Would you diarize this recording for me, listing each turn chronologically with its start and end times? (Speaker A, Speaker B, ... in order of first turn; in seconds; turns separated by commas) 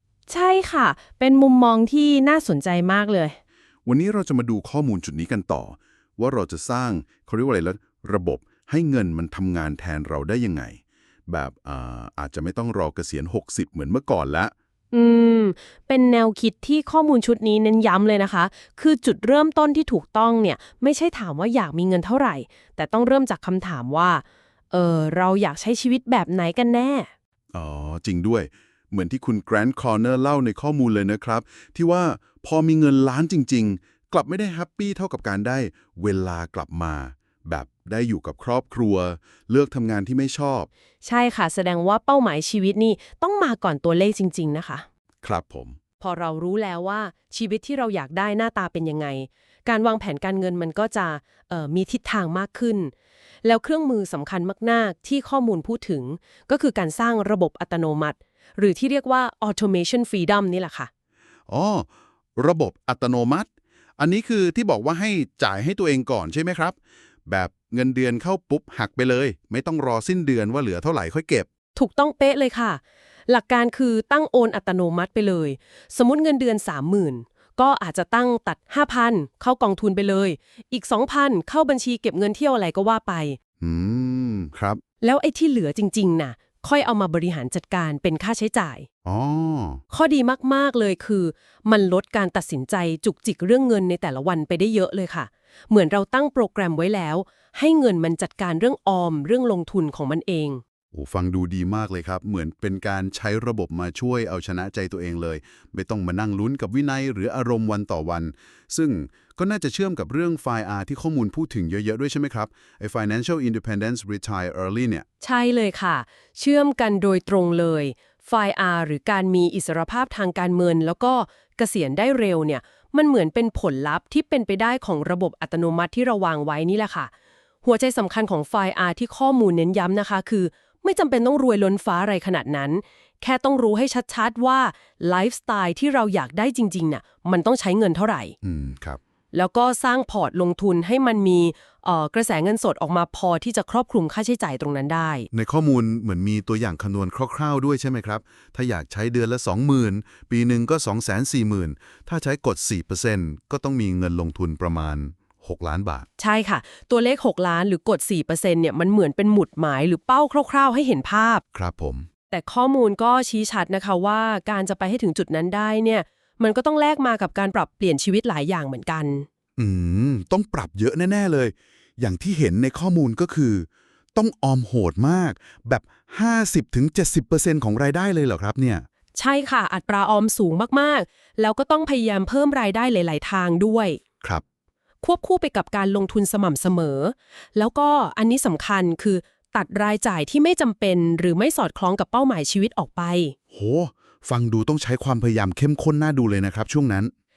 Speaker A: 0.3-3.4, Speaker B: 3.9-14.5, Speaker A: 14.9-27.1, Speaker B: 27.5-40.7, Speaker A: 41.0-44.9, Speaker B: 45.2-45.8, Speaker A: 46.0-52.9, Speaker A: 53.4-60.9, Speaker B: 61.5-71.5, Speaker A: 71.8-83.4, Speaker B: 83.6-84.8, Speaker A: 85.0-88.9, Speaker B: 89.0-89.8, Speaker A: 89.9-100.6, Speaker B: 100.9-115.0, Speaker A: 115.2-127.1, Speaker A: 127.6-138.3, Speaker B: 138.4-139.0, Speaker A: 139.3-145.3, Speaker B: 145.3-156.1, Speaker A: 156.2-161.4, Speaker B: 161.5-162.1, Speaker A: 162.3-169.3, Speaker B: 169.6-178.9, Speaker A: 179.2-184.0, Speaker A: 185.0-193.3, Speaker B: 193.5-197.1